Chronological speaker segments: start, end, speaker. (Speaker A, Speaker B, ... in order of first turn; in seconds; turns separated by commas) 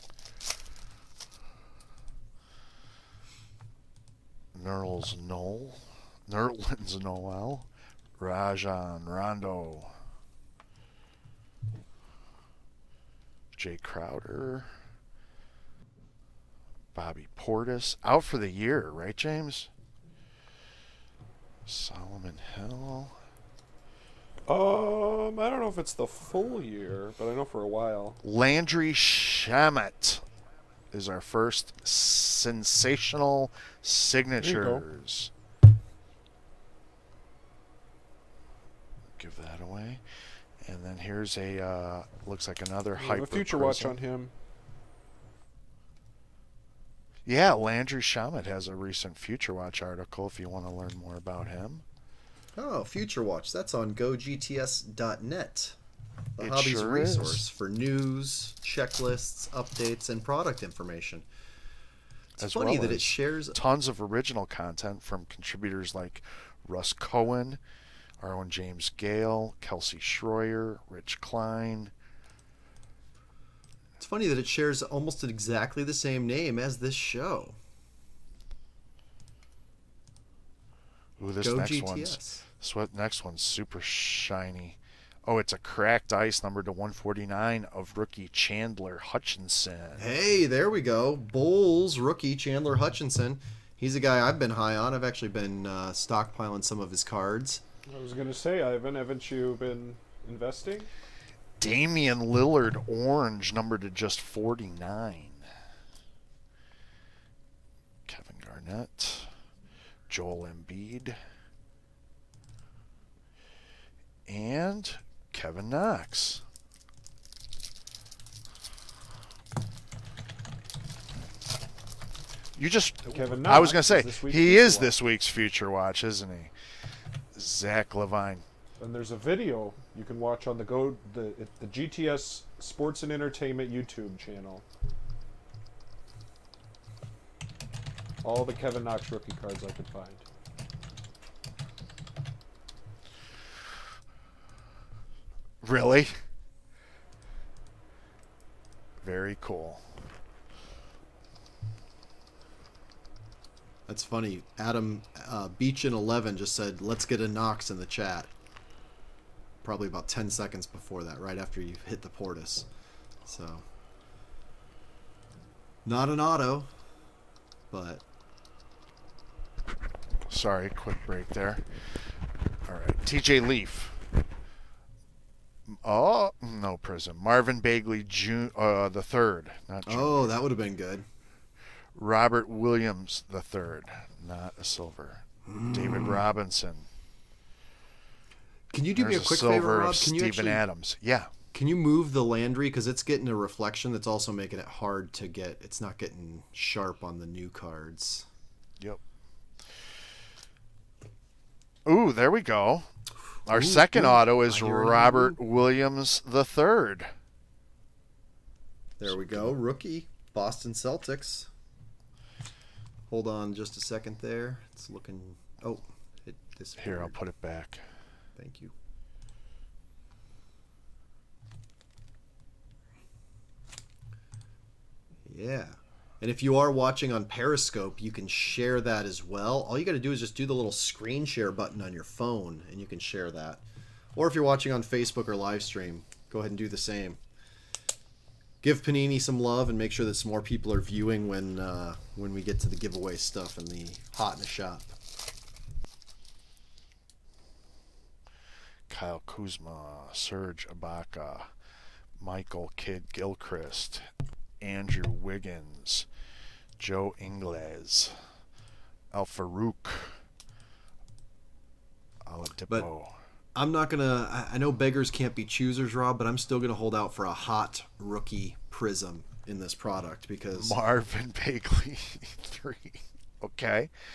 Speaker A: 4.5-9.9, Speaker A: 13.6-14.7, Speaker A: 16.9-19.7, Speaker A: 21.7-23.2, Speaker B: 24.5-28.2, Speaker A: 28.2-30.2, Speaker A: 30.9-35.3, Speaker B: 34.4-34.9, Speaker A: 39.2-40.0, Speaker A: 40.6-44.0, Speaker B: 43.0-44.3, Speaker A: 47.3-51.8, Speaker C: 52.6-55.8, Speaker C: 56.4-61.3, Speaker A: 56.4-57.5, Speaker A: 62.4-67.6, Speaker C: 62.4-63.6, Speaker A: 68.2-71.9, Speaker C: 74.0-77.6, Speaker A: 81.2-90.0, Speaker C: 81.4-82.4, Speaker C: 90.0-97.6, Speaker B: 97.9-100.9, Speaker A: 101.6-105.4, Speaker A: 108.1-109.3, Speaker A: 110.1-111.2, Speaker A: 114.3-116.4, Speaker A: 122.6-126.5, Speaker B: 123.1-124.9, Speaker A: 127.3-128.4, Speaker B: 128.8-134.6, Speaker B: 138.2-140.2, Speaker A: 145.6-146.1, Speaker A: 149.0-149.8, Speaker C: 153.9-158.3, Speaker C: 159.6-162.7, Speaker C: 163.3-163.7, Speaker C: 165.8-166.7, Speaker C: 167.7-168.0, Speaker A: 170.3-171.7, Speaker A: 172.7-174.0, Speaker A: 175.7-180.3, Speaker C: 179.9-181.1, Speaker A: 181.9-186.9, Speaker C: 185.5-186.2, Speaker C: 188.7-190.6, Speaker A: 189.0-191.3, Speaker C: 191.5-198.3, Speaker A: 201.9-202.9, Speaker C: 203.5-205.4, Speaker A: 203.5-207.1, Speaker C: 209.0-211.5, Speaker A: 209.0-209.6, Speaker C: 213.1-217.2, Speaker A: 216.8-217.8, Speaker C: 218.4-218.7, Speaker C: 225.3-233.6, Speaker C: 234.2-237.2, Speaker C: 238.6-244.9, Speaker A: 248.9-251.5, Speaker A: 252.2-254.1, Speaker A: 254.6-256.1, Speaker A: 256.8-258.2, Speaker A: 259.1-260.2, Speaker A: 262.3-263.2, Speaker C: 263.6-270.8, Speaker A: 270.6-273.9